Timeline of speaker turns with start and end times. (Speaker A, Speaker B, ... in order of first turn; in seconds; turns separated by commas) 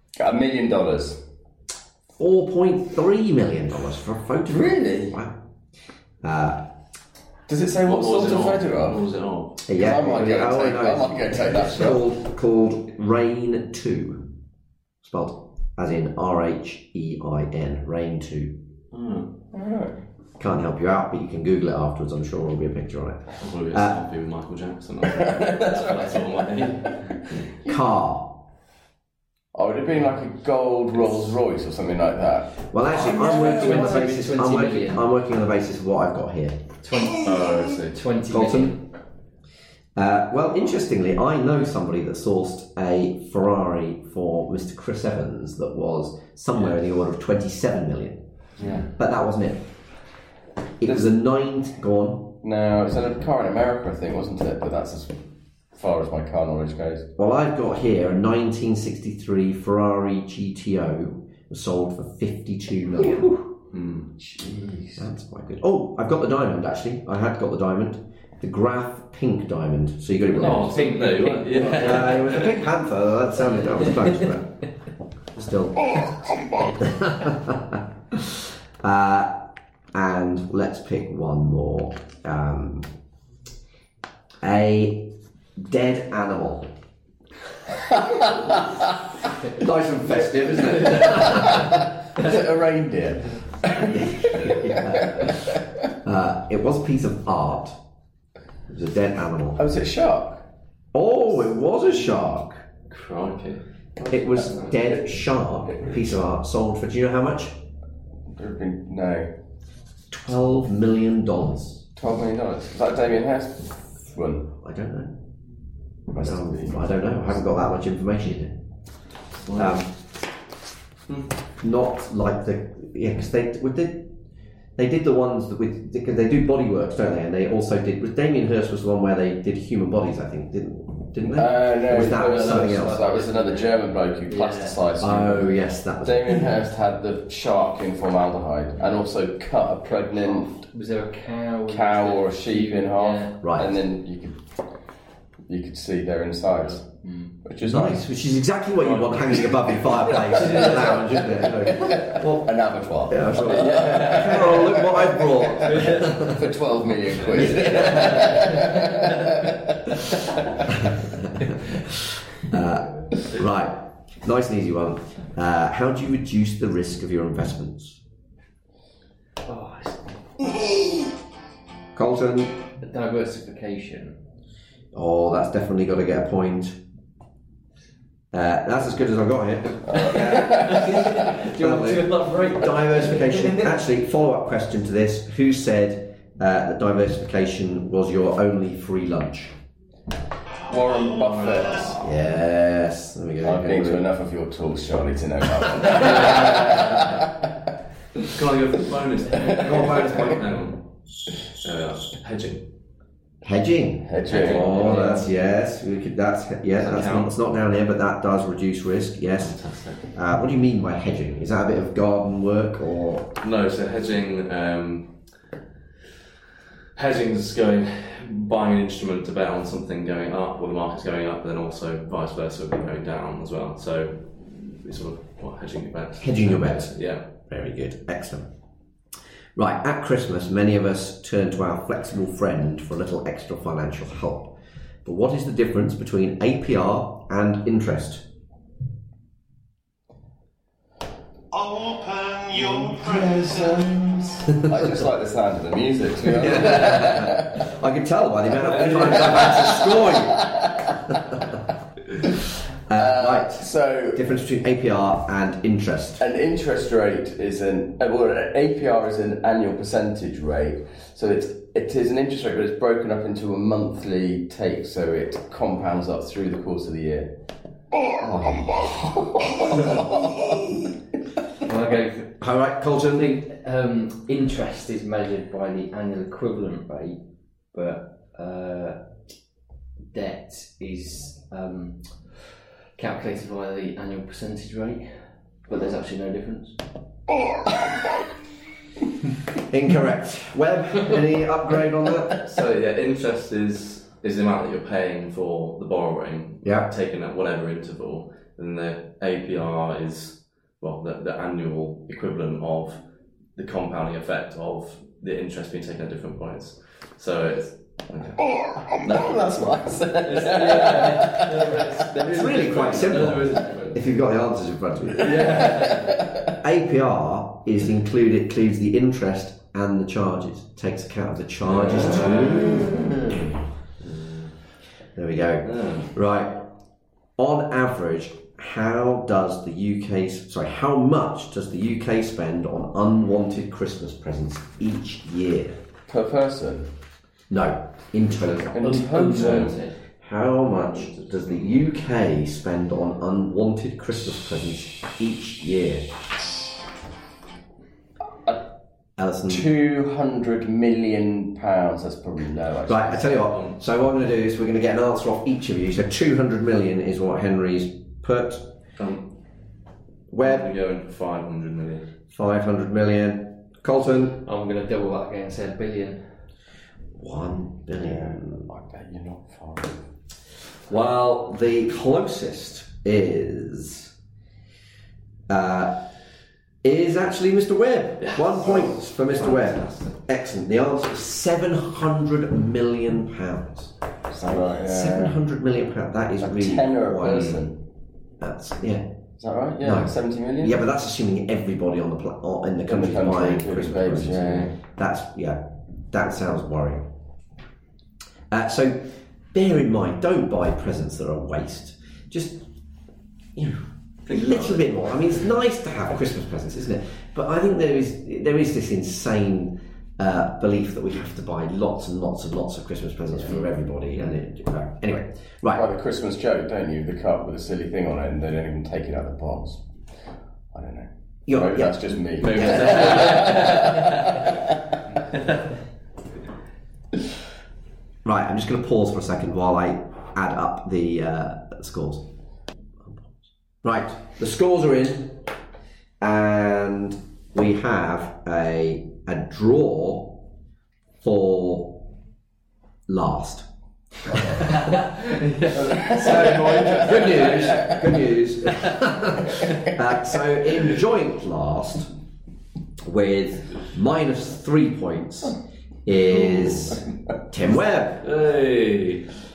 Speaker A: 0.2-1.2, Speaker B: 2.2-5.4, Speaker A: 4.5-5.2, Speaker B: 6.2-6.7, Speaker A: 7.5-9.0, Speaker C: 7.8-9.6, Speaker B: 9.7-14.3, Speaker A: 9.7-12.0, Speaker B: 15.0-18.6, Speaker C: 18.9-19.3, Speaker A: 19.5-20.0, Speaker B: 20.4-24.0, Speaker C: 23.4-27.3, Speaker A: 25.1-27.7, Speaker B: 27.6-28.4, Speaker A: 29.5-34.0, Speaker B: 32.7-36.6, Speaker D: 33.2-35.1, Speaker D: 36.8-38.8, Speaker C: 37.2-38.0, Speaker B: 38.3-38.7, Speaker B: 40.0-49.9, Speaker A: 48.6-48.9, Speaker B: 50.8-52.4, Speaker A: 50.8-51.1, Speaker A: 52.4-57.1, Speaker B: 57.2-63.4, Speaker C: 63.7-64.1, Speaker A: 64.2-65.0, Speaker B: 65.0-70.9, Speaker C: 70.3-72.6, Speaker D: 70.4-72.2, Speaker B: 71.7-74.7, Speaker B: 75.3-82.9, Speaker B: 84.4-86.7, Speaker B: 89.5-91.9, Speaker A: 92.2-95.5, Speaker B: 93.8-97.8, Speaker B: 98.7-99.6, Speaker A: 99.6-100.4, Speaker B: 100.9-102.6, Speaker C: 102.9-103.6, Speaker A: 104.0-106.0, Speaker B: 104.1-107.6, Speaker A: 108.2-109.3, Speaker B: 110.1-111.8, Speaker A: 112.0-114.5, Speaker B: 114.6-115.1, Speaker A: 116.1-116.8, Speaker B: 116.1-119.9, Speaker C: 119.5-119.7, Speaker B: 121.6-124.1, Speaker B: 124.8-133.0, Speaker A: 131.3-140.6, Speaker D: 131.9-134.8, Speaker B: 135.0-136.5, Speaker D: 140.2-143.4, Speaker A: 141.7-148.0, Speaker B: 143.4-143.8, Speaker D: 147.0-147.4, Speaker B: 147.7-156.5, Speaker C: 148.8-151.0, Speaker A: 150.4-159.2, Speaker C: 153.8-154.2, Speaker C: 155.6-156.1, Speaker B: 157.3-158.2, Speaker B: 160.9-168.0, Speaker D: 169.4-170.7, Speaker B: 171.9-172.6, Speaker D: 172.8-174.2, Speaker B: 174.9-176.8, Speaker B: 178.3-189.5, Speaker A: 179.9-181.1, Speaker D: 180.0-183.8, Speaker E: 190.7-192.0, Speaker A: 190.7-192.0, Speaker C: 191.3-191.8, Speaker B: 192.0-194.1, Speaker A: 193.4-197.2, Speaker B: 195.8-196.2, Speaker C: 196.0-196.7, Speaker C: 198.2-200.8, Speaker B: 199.6-200.5, Speaker C: 201.4-202.6, Speaker B: 203.4-213.3, Speaker A: 204.0-204.9, Speaker C: 204.3-205.3, Speaker C: 206.8-207.3, Speaker C: 209.4-210.1, Speaker C: 213.4-215.5, Speaker C: 216.9-227.2, Speaker B: 226.2-228.5, Speaker B: 229.6-238.2, Speaker E: 241.5-244.0, Speaker A: 242.6-247.7, Speaker B: 246.3-251.4, Speaker A: 248.7-250.8, Speaker B: 252.9-256.2, Speaker A: 252.9-254.2, Speaker A: 256.2-267.3, Speaker B: 268.2-268.7, Speaker A: 268.4-270.8, Speaker D: 271.6-272.4, Speaker B: 272.4-273.4, Speaker D: 273.1-279.1, Speaker D: 280.1-286.8, Speaker B: 289.7-292.4, Speaker C: 292.4-309.3, Speaker B: 296.6-296.9, Speaker A: 309.0-311.9, Speaker C: 310.2-314.0, Speaker D: 310.8-311.9, Speaker B: 312.2-315.6, Speaker C: 315.2-316.1, Speaker A: 315.3-316.1, Speaker B: 316.6-323.0, Speaker C: 321.7-322.8, Speaker A: 322.2-323.0, Speaker C: 324.2-324.5, Speaker B: 325.1-326.7, Speaker C: 325.6-326.1, Speaker B: 327.4-335.8, Speaker A: 336.1-336.9, Speaker B: 337.5-346.1, Speaker D: 338.3-340.0, Speaker A: 338.7-339.8, Speaker C: 339.1-339.6, Speaker C: 340.9-341.5, Speaker B: 349.2-349.7, Speaker A: 349.5-353.5, Speaker B: 352.9-358.7, Speaker C: 353.5-353.8, Speaker C: 359.0-359.2, Speaker B: 360.3-360.7, Speaker C: 360.4-362.1, Speaker B: 362.3-364.4, Speaker D: 364.4-366.3, Speaker B: 367.1-368.7, Speaker A: 367.9-370.0, Speaker B: 370.9-374.1, Speaker B: 375.5-376.0, Speaker B: 376.8-383.9, Speaker C: 378.2-380.1, Speaker A: 384.3-385.4, Speaker B: 384.8-387.6, Speaker A: 386.4-387.8, Speaker C: 387.2-387.6, Speaker B: 388.4-389.1, Speaker A: 389.4-390.8, Speaker B: 389.8-397.1, Speaker A: 392.9-394.7, Speaker B: 398.5-402.7, Speaker B: 403.5-415.8, Speaker C: 404.2-405.4, Speaker A: 415.7-423.9, Speaker B: 421.5-423.5, Speaker C: 422.4-424.3, Speaker B: 428.2-432.2, Speaker B: 433.0-435.4, Speaker B: 436.2-440.4, Speaker B: 441.2-442.1, Speaker B: 443.1-443.6, Speaker B: 444.2-444.6, Speaker C: 445.2-447.9, Speaker A: 445.8-447.2, Speaker B: 446.1-452.1, Speaker B: 453.0-458.3, Speaker C: 458.2-459.3